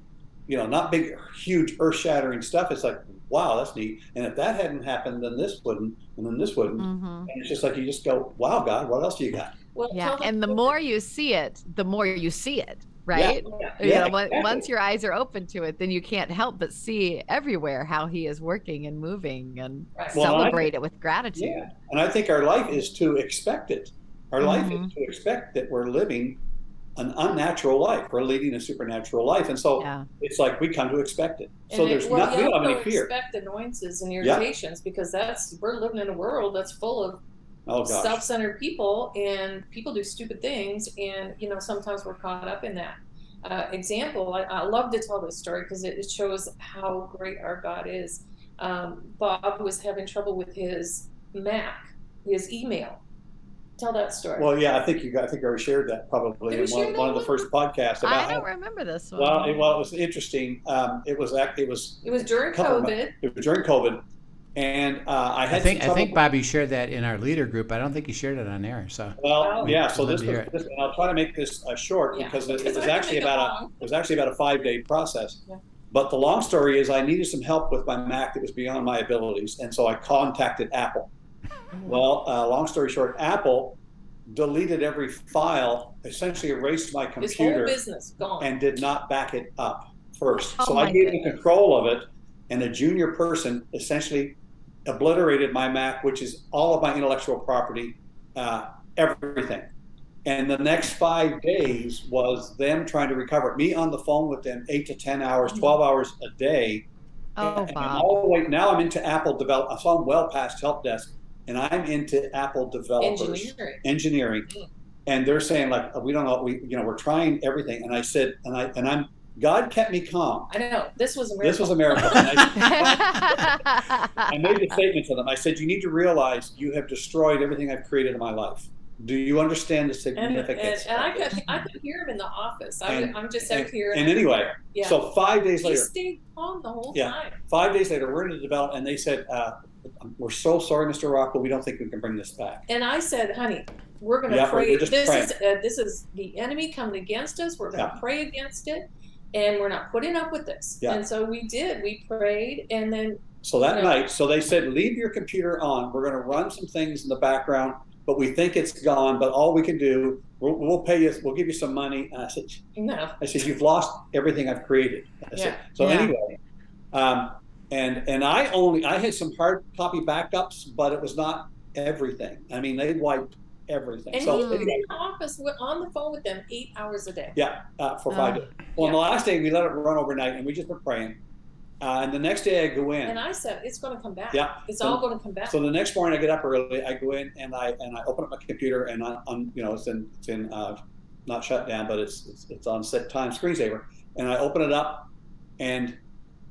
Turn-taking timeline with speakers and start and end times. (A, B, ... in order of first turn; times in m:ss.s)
0:00.5-0:09.5 A
0:06.8-0:07.3 B
0:09.7-0:10.7 C
0:09.9-0:21.6 B
0:13.1-0:14.7 A
0:20.0-0:20.5 C
0:20.1-0:20.7 A
0:21.4-0:26.4 A
0:24.4-0:24.9 B
0:27.0-0:33.1 A
0:29.8-0:30.1 B
0:31.7-0:37.2 C
0:37.7-0:38.2 A
0:37.8-0:53.0 C
0:53.8-0:54.5 C
0:54.4-0:58.4 A
0:56.5-0:57.5 C
0:58.0-0:59.7 B
0:59.2-1:04.0 A
1:02.0-1:03.2 C
1:04.6-1:06.2 A
1:05.5-1:10.5 D
1:09.2-1:21.1 A
1:09.4-1:09.7 C
1:12.1-1:13.9 C
1:21.7-1:22.0 C
1:21.9-1:27.8 A
1:27.2-1:28.5 C
1:28.4-1:39.7 A
1:30.3-1:31.2 B
1:40.2-1:46.9 A
1:45.5-1:45.8 C
1:47.4-1:48.1 B
1:47.4-1:54.5 A
1:53.0-1:53.8 C
1:55.1-2:00.5 A
2:00.5-2:02.9 C
2:01.4-2:03.6 A
2:02.6-2:04.3 B
2:04.2-2:11.4 A
2:10.2-2:15.0 C
2:12.9-2:15.9 A
2:15.6-2:17.4 C
2:16.9-2:22.7 A
2:22.7-2:34.0 C
2:24.3-2:25.3 A
2:33.4-2:42.6 A
2:42.8-2:43.2 C
2:43.2-2:46.4 A
2:45.4-2:45.6 C
2:45.8-2:46.1 B
2:46.9-2:54.8 A
2:54.1-2:57.4 C
2:54.2-2:54.7 B
2:57.4-3:01.2 A
2:58.1-2:58.4 B
3:01.8-3:03.2 A
3:03.0-3:05.6 C
3:04.3-3:15.1 A
3:15.6-3:16.0 A